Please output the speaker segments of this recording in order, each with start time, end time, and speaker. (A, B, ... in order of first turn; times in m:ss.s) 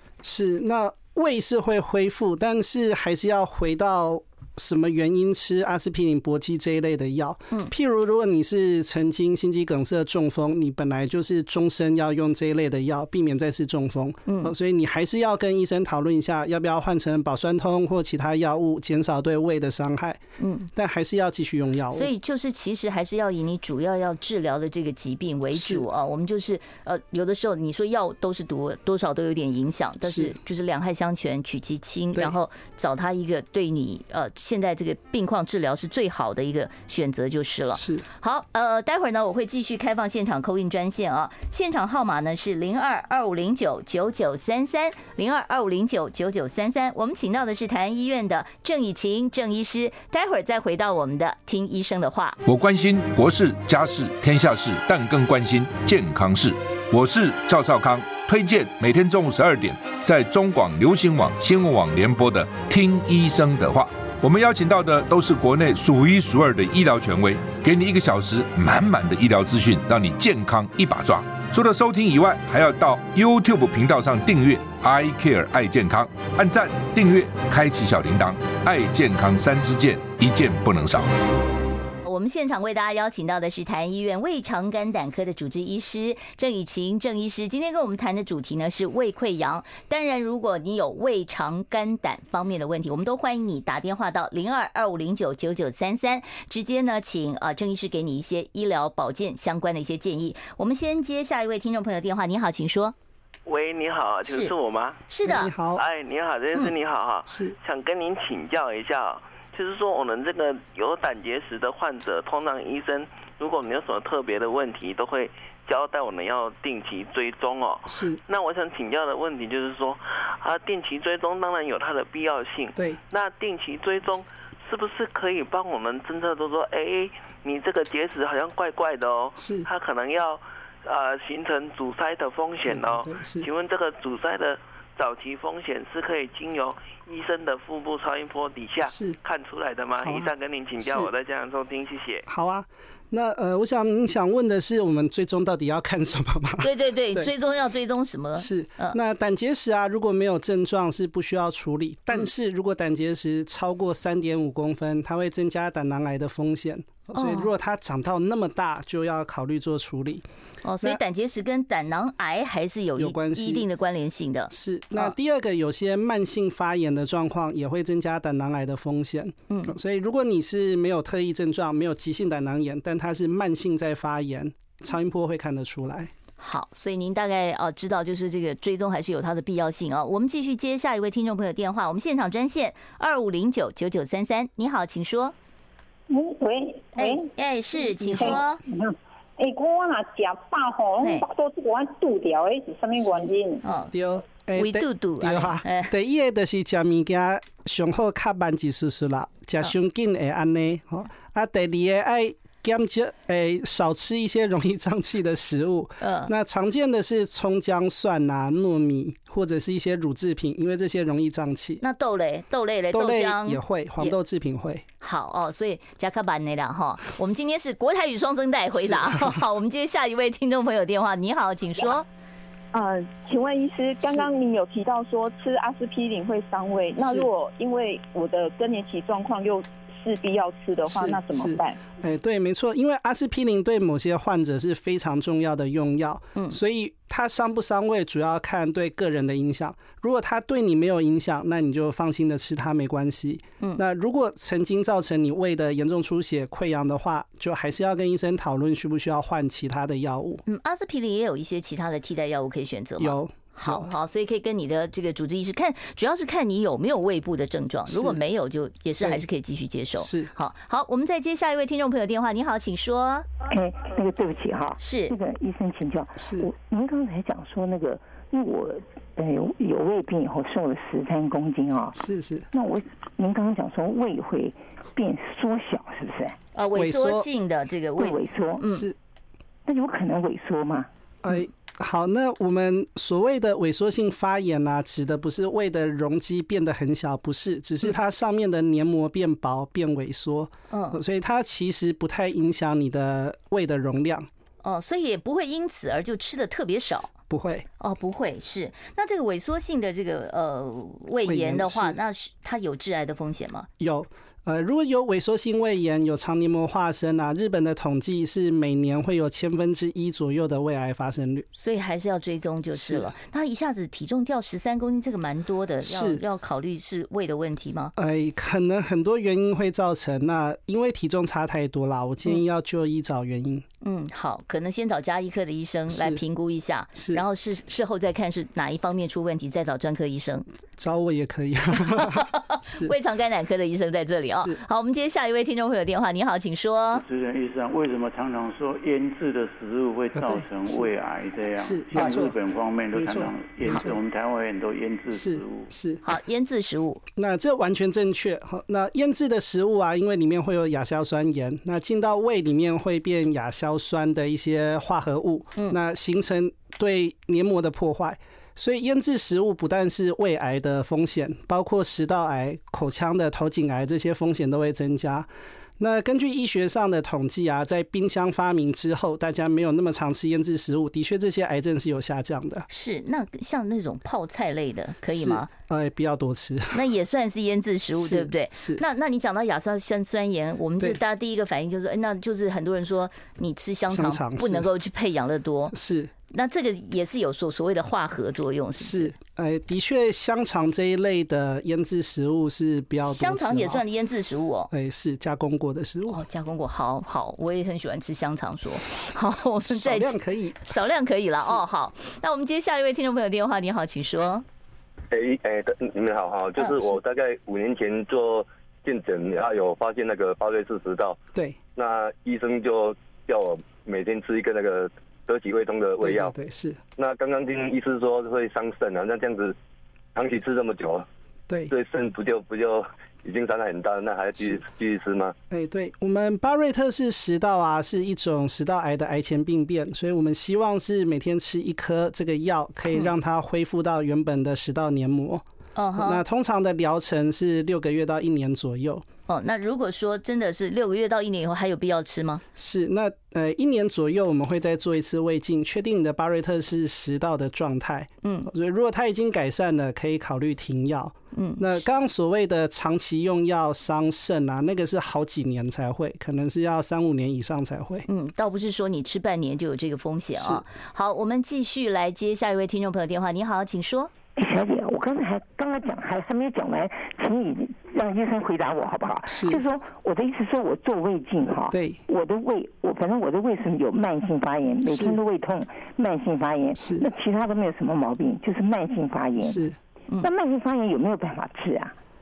0:00.2-0:20.2 A
0:14.2-0:14.5 B
0:20.4-0:20.7 B
0:20.7-0:22.1 A
0:21.9-0:52.4 B
0:25.5-0:25.8 A
0:30.0-0:30.4 A
0:37.7-0:38.0 A
0:52.4-1:21.1 C
1:22.0-1:42.9 B
1:43.4-1:45.0 D
1:44.2-1:44.5 B
1:45.1-1:45.5 B
1:45.2-1:45.8 A
1:45.8-2:22.2 D
1:47.3-1:47.6 A
1:57.9-1:58.2 A
2:02.7-2:03.0 A
2:09.4-2:09.7 A
2:12.6-2:13.5 A
2:18.8-2:19.2 A
2:20.0-2:21.1 A
2:22.2-2:27.3 A
2:26.6-2:29.0 B
2:28.4-2:40.2 A
2:37.1-2:37.5 B
2:40.6-2:45.1 B
2:43.0-2:43.6 A
2:44.5-2:56.1 A
2:49.5-2:49.7 B
2:56.4-3:05.3 B
3:06.1-3:07.3 E
3:06.9-3:08.6 B
3:08.0-3:13.6 E
3:11.0-3:11.2 B
3:13.6-3:13.9 B
3:13.9-3:31.8 A
3:14.6-3:15.9 B
3:26.0-3:26.3 B
3:31.8-3:34.2 B
3:32.9-3:34.8 A
3:35.0-3:42.0 B
3:38.8-3:39.4 A
3:42.7-3:51.8 F
3:47.0-3:47.3 A
3:50.9-4:10.4 A
4:10.4-4:23.3 B
4:13.0-4:13.8 A
4:17.9-4:18.2 A
4:20.0-4:20.3 A
4:23.4-4:36.4 G
4:24.8-4:25.2 B
4:26.2-4:26.5 A
4:32.0-4:32.5 A
4:36.5-4:38.9 B
4:36.7-4:37.3 A
4:38.0-4:38.6 G
4:38.7-4:39.0 A
4:39.6-4:40.9 G
4:41.2-4:54.3 A
4:50.7-4:51.0 B
4:54.6-4:57.1 B
4:57.3-4:57.6 A
4:57.8-5:03.7 B
5:01.2-5:02.0 A
5:03.8-5:11.5 A
5:11.6-5:17.9 B
5:12.7-5:13.1 A
5:15.8-5:16.2 A
5:18.0-5:23.6 A
5:23.8-5:30.4 B
5:25.9-5:26.2 A
5:27.0-5:27.2 A
5:30.8-5:32.9 A
5:31.9-5:37.0 B
5:34.3-5:34.6 A
5:36.9-5:45.7 H
5:40.1-5:40.9 A
5:41.6-5:42.4 A
5:42.0-5:42.2 B
5:42.9-5:44.0 A
5:45.1-5:46.0 A
5:46.0-5:47.0 B
5:47.2-6:12.7 A
6:12.7-6:15.5 B
6:15.1-6:16.8 A
6:16.7-6:25.7 B
6:17.9-6:18.8 A
6:23.9-6:24.7 A
6:25.7-6:26.1 A
6:26.3-6:29.1 B
6:28.8-6:33.8 A
6:33.0-6:34.7 B
6:34.7-6:36.2 A
6:36.1-6:44.4 B
6:39.6-6:40.7 A
6:45.1-6:51.2 I
6:51.8-6:56.3 I
6:56.0-6:56.8 A
6:57.0-6:59.5 I
7:00.2-7:01.0 I
7:01.7-7:05.3 I
7:05.5-7:15.4 A
7:15.8-7:16.2 B
7:16.0-7:19.0 A
7:19.3-7:22.4 B
7:22.6-7:38.1 A
7:28.2-7:28.5 B
7:31.3-7:31.8 B
7:38.1-7:44.1 B
7:40.3-7:40.6 A
7:44.4-7:59.6 G
7:49.3-7:49.6 A
7:51.7-7:52.0 A
7:54.9-7:55.2 A
7:56.8-7:57.1 A
7:59.4-7:59.8 A
8:00.2-8:01.9 G